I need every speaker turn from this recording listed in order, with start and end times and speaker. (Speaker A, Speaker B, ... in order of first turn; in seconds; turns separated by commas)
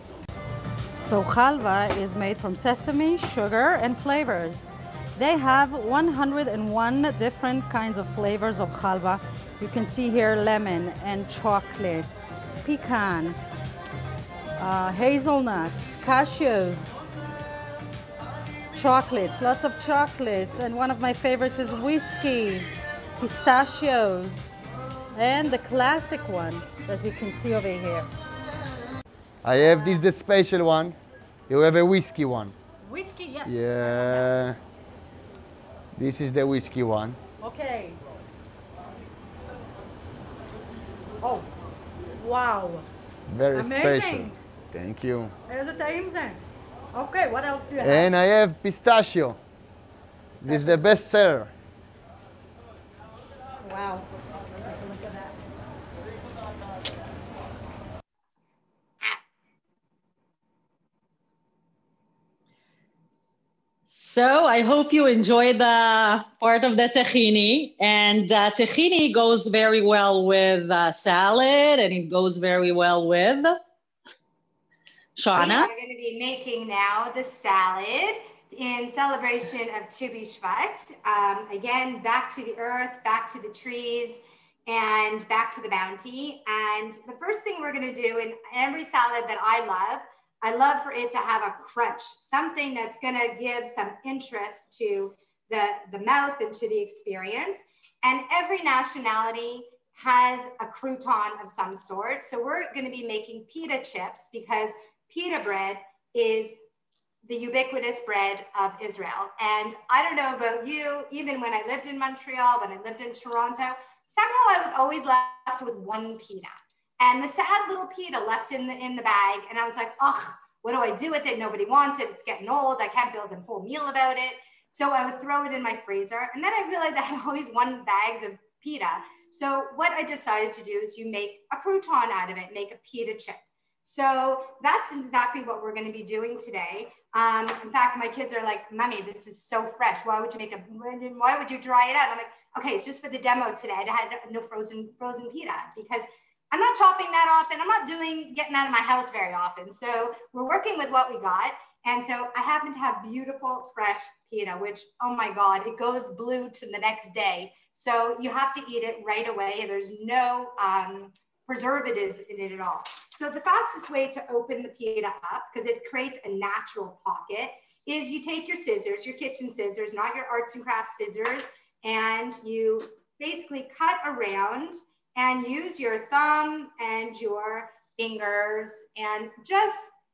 Speaker A: 1.0-13.4, Speaker A: 14.6-17.1, Speaker A: 18.7-24.5, Speaker A: 25.1-28.1, Speaker B: 29.4-31.0, Speaker A: 29.6-30.0, Speaker B: 31.5-32.5, Speaker A: 32.8-34.3, Speaker B: 33.5-34.6, Speaker B: 36.0-37.2, Speaker A: 37.4-38.0, Speaker A: 41.2-41.5, Speaker A: 42.1-42.9, Speaker B: 43.3-45.3, Speaker A: 43.5-44.4, Speaker A: 45.5-46.4, Speaker A: 46.9-48.1, Speaker B: 47.8-49.4, Speaker A: 50.4-51.0, Speaker B: 50.4-51.5, Speaker A: 53.6-55.4, Speaker C: 63.9-73.5, Speaker C: 75.2-75.7, Speaker D: 75.4-106.6, Speaker D: 107.2-179.9